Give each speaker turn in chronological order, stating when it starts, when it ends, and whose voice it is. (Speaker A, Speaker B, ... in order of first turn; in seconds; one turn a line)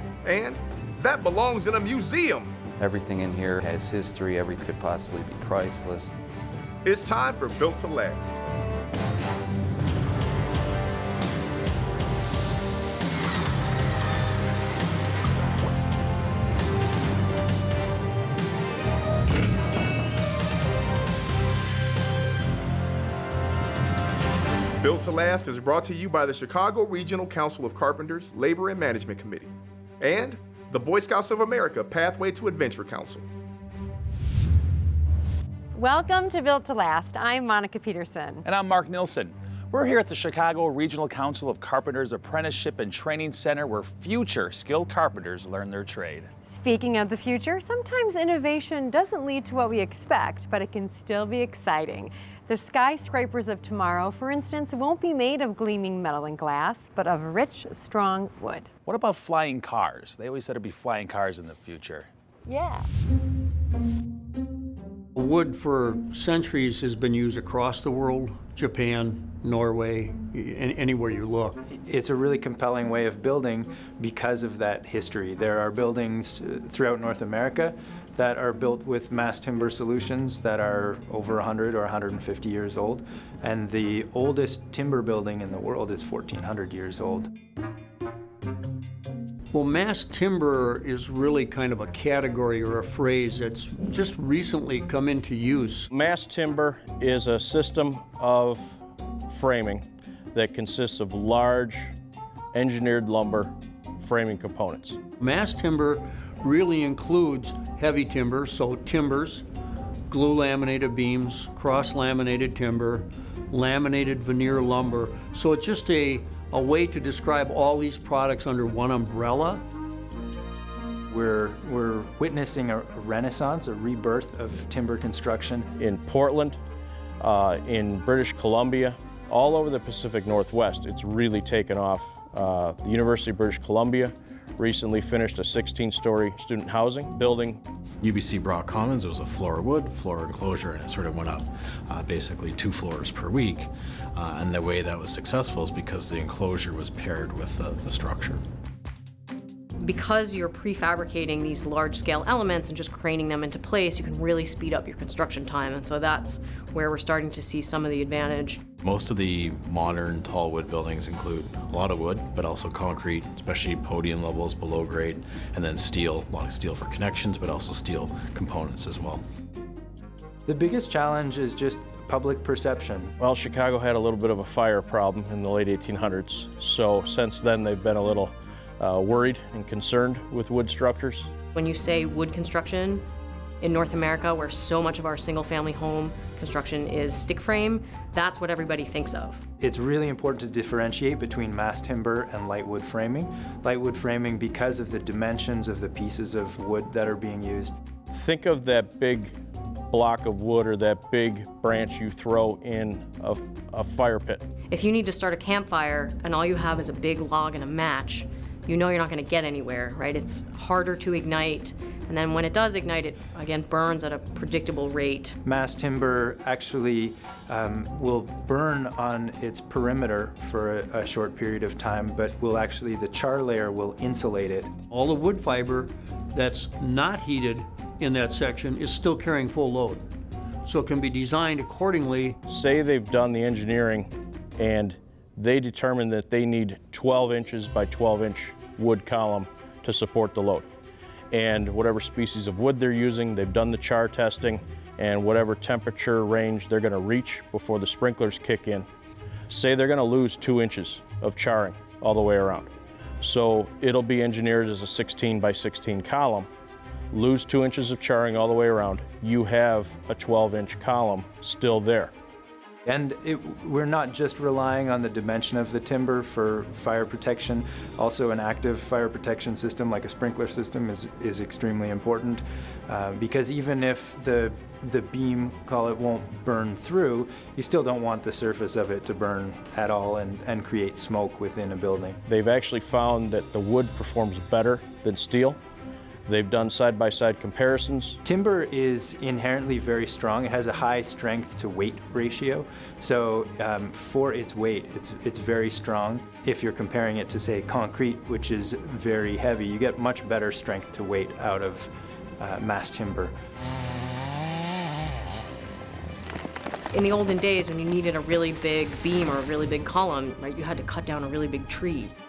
Speaker A: 0.2-2.5
Speaker B: 2.8-6.1
Speaker A: 6.8-8.4
Speaker A: 24.8-33.3
Speaker C: 35.7-38.4
Speaker D: 38.4-46.3
Speaker C: 46.4-58.7
Speaker D: 58.9-62.1
Speaker C: 62.5-62.8
Speaker E: 65.1-71.6
Speaker F: 71.8-87.3
Speaker E: 89.5-95.9
Speaker G: 95.9-101.9
Speaker G: 102.5-105.0
Speaker E: 105.2-109.4
Speaker E: 110.1-119.6
Speaker F: 121.1-125.7
Speaker G: 125.8-126.6
Speaker G: 127.2-137.6
Speaker H: 138.0-148.4
Speaker I: 149.8-158.6
Speaker H: 158.8-169.2
Speaker F: 170.4-173.1
Speaker G: 173.2-181.3
Speaker I: 181.5-183.0
Speaker I: 183.6-189.4
Speaker F: 189.6-197.7
Speaker G: 198.1-199.3
Speaker G: 199.9-204.4
Speaker I: 204.7-215.3
Speaker F: 215.4-224.8
Speaker E: 224.9-230.1
Speaker E: 230.6-232.4
Speaker G: 232.5-240.7
Speaker G: 241.3-248.9
Speaker G: 249.5-252.7
Speaker G: 253.2-256.5
Speaker G: 257.1-262.1
Speaker F: 262.8-282.2
Speaker G: 282.3-285.6
Speaker G: 286.3-288.2
Speaker F: 288.2-303.3
Speaker I: 306.9-312.1